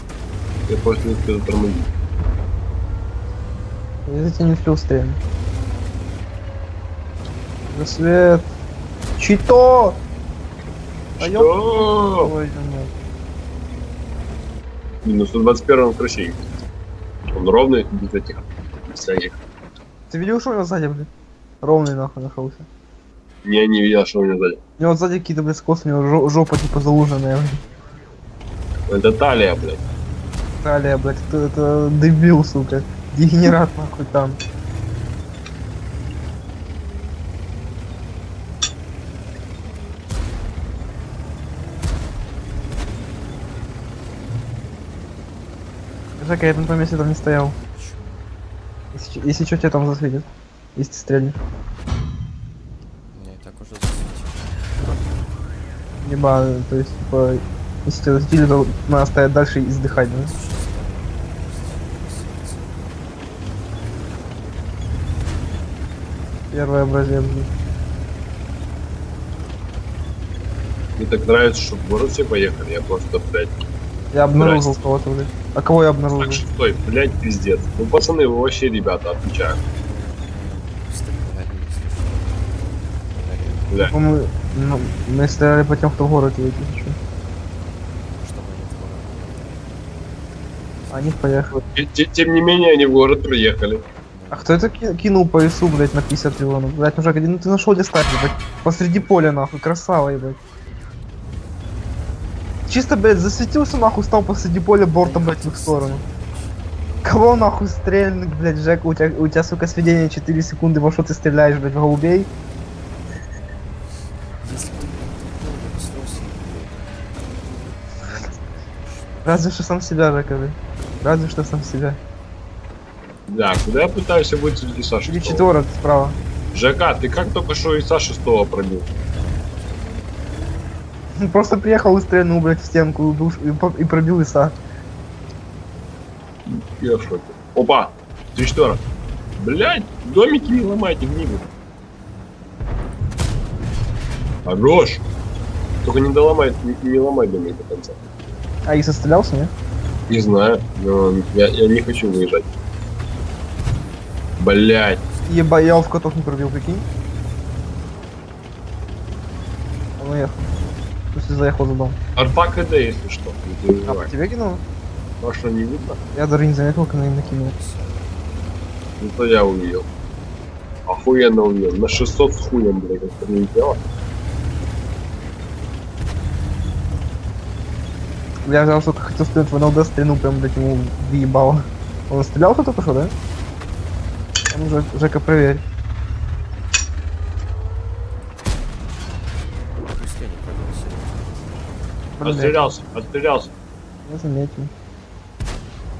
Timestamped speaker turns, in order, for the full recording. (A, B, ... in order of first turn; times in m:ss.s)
0:00.7-0:01.9 A
0:04.1-0:05.2 B
0:07.7-0:08.5 B
0:09.2-0:10.0 B
0:11.2-0:12.3 A
0:11.2-0:11.5 B
0:12.1-0:13.0 B
0:15.0-0:16.4 A
0:17.3-0:19.4 A
0:20.1-0:21.1 B
0:21.6-0:22.7 B
0:23.4-0:24.6 A
0:24.8-0:27.6 B
0:28.9-0:29.8 A
0:30.6-0:34.4 B
0:46.2-0:47.6 B
0:47.7-0:48.3 C
0:48.9-0:51.4 B
0:53.1-0:54.8 C
0:56.0-1:00.3 B
0:59.8-1:03.1 C
1:06.5-1:07.5 B
1:11.0-1:13.5 A
1:14.1-1:16.4 B
1:14.4-1:14.7 A
1:16.2-1:19.6 A
1:19.7-1:23.7 C
1:23.8-1:27.0 B
1:28.0-1:29.8 C
1:30.8-1:31.2 C
1:30.9-1:31.6 B
1:31.6-1:33.8 A
1:34.1-1:34.7 C
1:34.3-1:40.4 B
1:42.7-1:46.0 B
1:45.0-1:46.8 C
1:47.0-1:52.3 B
1:54.4-1:59.5 C
1:59.2-2:02.0 B
2:03.3-2:05.5 A
2:05.1-2:06.2 B
2:06.5-2:08.9 A
2:08.9-2:09.9 C
2:11.2-2:14.6 B
2:16.5-2:18.8 A
2:19.4-2:21.4 A
2:24.4-2:25.0 A
2:25.8-2:28.0 A
2:28.7-2:29.5 B
2:30.1-2:32.5 A
2:34.4-2:35.0 A
2:35.3-2:36.9 B
2:40.0-2:40.5 B
2:41.1-2:42.0 B
2:42.2-2:44.1 A
2:43.9-2:44.6 B
2:45.2-2:46.0 A
2:46.2-2:47.5 B
2:46.9-2:48.4 C
2:49.0-2:49.9 A
2:50.9-2:53.8 A
2:58.4-3:03.1 B
3:04.5-3:05.6 B
3:09.8-3:11.9 C
3:12.2-3:12.7 B
3:12.2-3:13.5 A
3:14.1-3:14.7 B